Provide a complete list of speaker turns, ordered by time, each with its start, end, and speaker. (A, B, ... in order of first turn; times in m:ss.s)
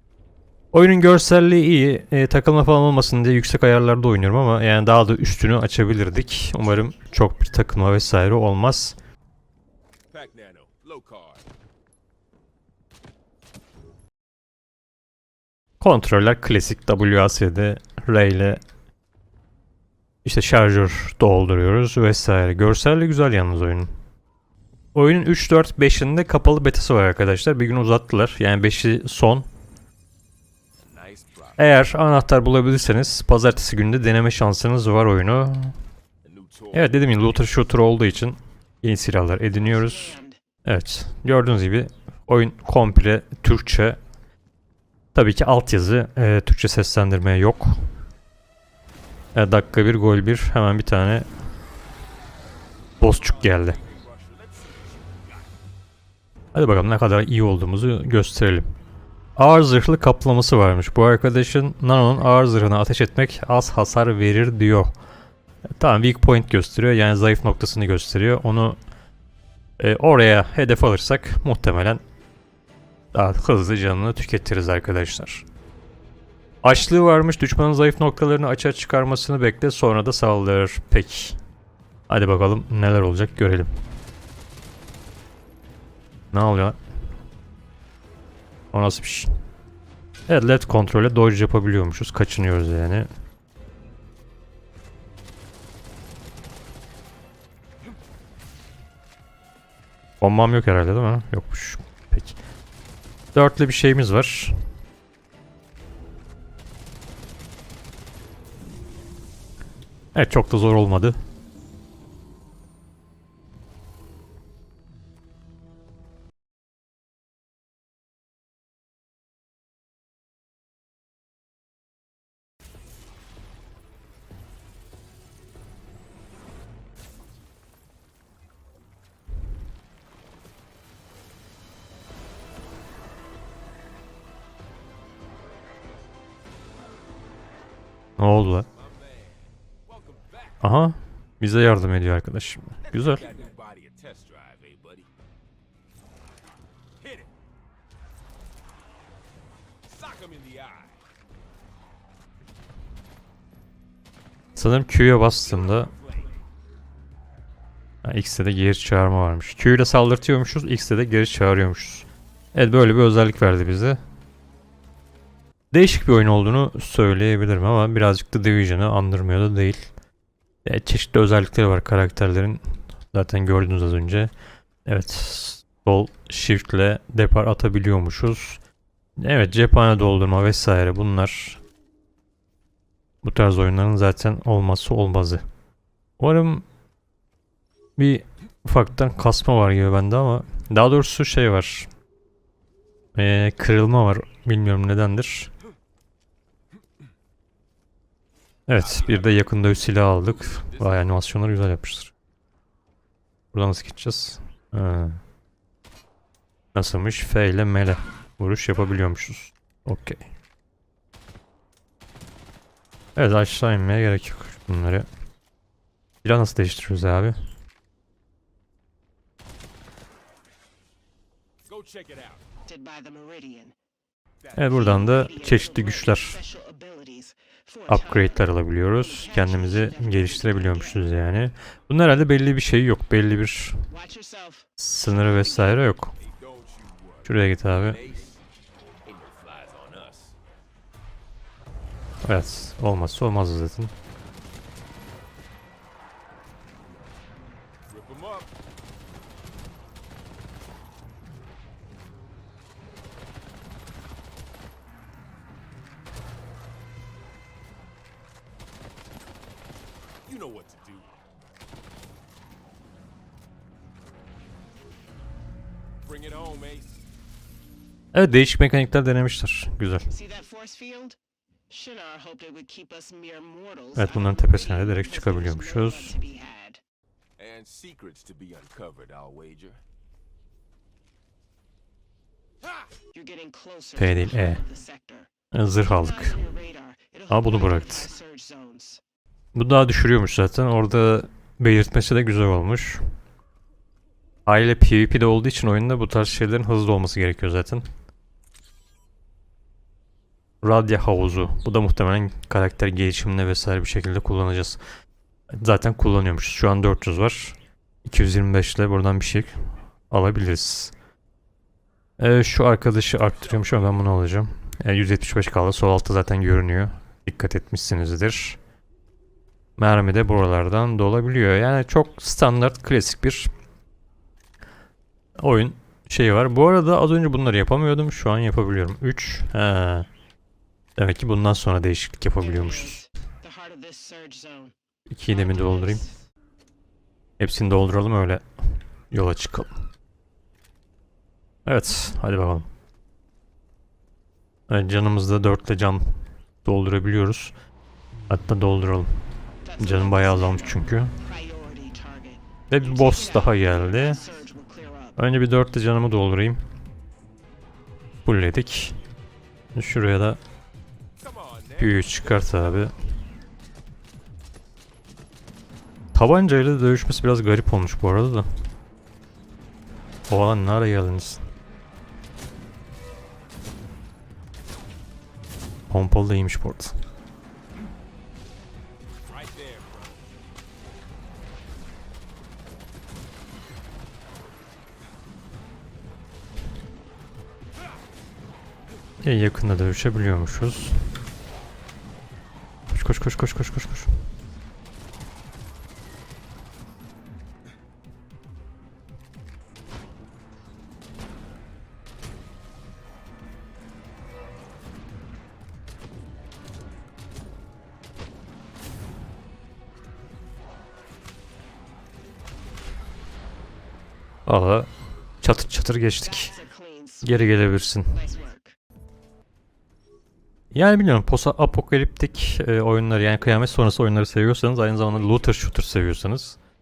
0:00.7-0:09.0 A
0:10.1-0:11.4 B
0:15.8-0:18.6 A
0:20.2-0:23.9 A
0:24.9-0:29.5 A
0:30.8-0:31.6 B
0:31.6-0:35.8 A
0:36.2-0:37.5 B
0:36.7-0:44.0 A
0:39.5-0:40.4 C
0:45.1-0:47.9 A
0:49.3-0:51.3 A
0:53.0-0:55.5 B
0:53.0-0:53.8 A
0:56.5-0:58.6 A
0:59.4-1:04.9 A
1:05.8-1:08.8 A
1:09.8-1:12.0 A
1:13.1-1:15.4 A
1:16.6-1:21.4 A
1:22.1-1:23.7 A
1:26.3-1:26.8 A
1:28.7-1:29.3 A
1:30.3-1:33.1 A
1:40.2-1:42.4 A
1:43.3-1:44.6 A
1:50.1-1:51.2 A
2:18.2-2:18.7 A
2:18.7-2:20.6 B
2:20.6-2:23.3 A
2:22.8-2:25.1 B
2:27.0-2:27.3 B
2:29.8-2:31.0 B
2:34.6-2:35.9 A
2:35.4-2:36.4 B
2:38.0-2:44.0 A
2:45.7-2:49.9 A
2:50.6-2:54.3 A
2:54.8-2:58.6 A
2:59.2-3:01.6 A
3:03.2-3:05.4 A
3:06.2-3:06.6 A
3:08.0-3:11.9 A
3:13.1-3:15.5 A
3:18.7-3:22.1 A
3:18.8-3:21.2 B
3:23.5-3:25.2 A
3:26.7-3:30.2 A
3:33.2-3:35.1 A
3:36.2-3:37.4 A
3:41.6-3:42.4 B
3:42.6-3:43.8 C
3:44.4-3:45.3 B
3:44.5-3:46.4 A
3:44.6-3:51.1 C
3:47.9-3:53.9 A
3:53.9-3:55.9 C
3:54.8-3:56.1 A
3:56.2-3:58.4 B
3:57.2-3:58.0 A
3:59.0-4:00.4 B
4:02.2-4:03.9 A
4:07.9-4:08.5 B
4:20.2-4:21.2 B
4:26.0-4:27.0 B
4:28.1-4:30.1 A
4:30.1-4:31.2 C
4:31.7-4:36.8 C
4:34.0-4:36.2 A
4:37.4-4:39.8 B
4:43.1-4:49.0 C
4:44.0-4:44.6 A
4:45.5-4:46.4 A
4:47.3-4:48.1 A
4:49.5-4:53.0 A
4:54.4-4:57.8 A
5:00.6-5:04.8 A
5:05.5-5:10.9 A
5:12.2-5:18.6 A
5:13.1-5:14.1 B
5:19.8-5:23.5 A
5:25.4-5:30.1 A
5:31.0-5:33.0 A
5:32.4-5:34.7 C
5:35.1-5:36.0 A
5:35.3-5:36.2 C
5:37.4-5:38.4 A
5:39.1-5:39.8 A
5:41.6-5:42.7 A
5:44.7-5:47.5 A
5:48.3-5:49.1 A
5:49.6-5:55.2 C
5:49.8-5:51.1 A
5:52.7-5:54.2 A
5:55.2-5:56.6 A
5:58.2-5:59.0 A
5:59.7-6:00.4 A
6:01.2-6:02.9 B
6:01.8-6:02.9 A
6:06.1-6:08.5 A
6:10.3-6:11.4 A
6:15.9-6:16.9 A
6:19.2-6:20.3 B
6:29.2-6:31.0 A
6:32.9-6:34.1 A
6:54.5-6:54.9 A
6:55.4-6:56.5 A
6:56.2-6:58.8 C
6:57.2-6:58.3 A
7:00.7-7:06.6 A
7:05.0-7:05.8 B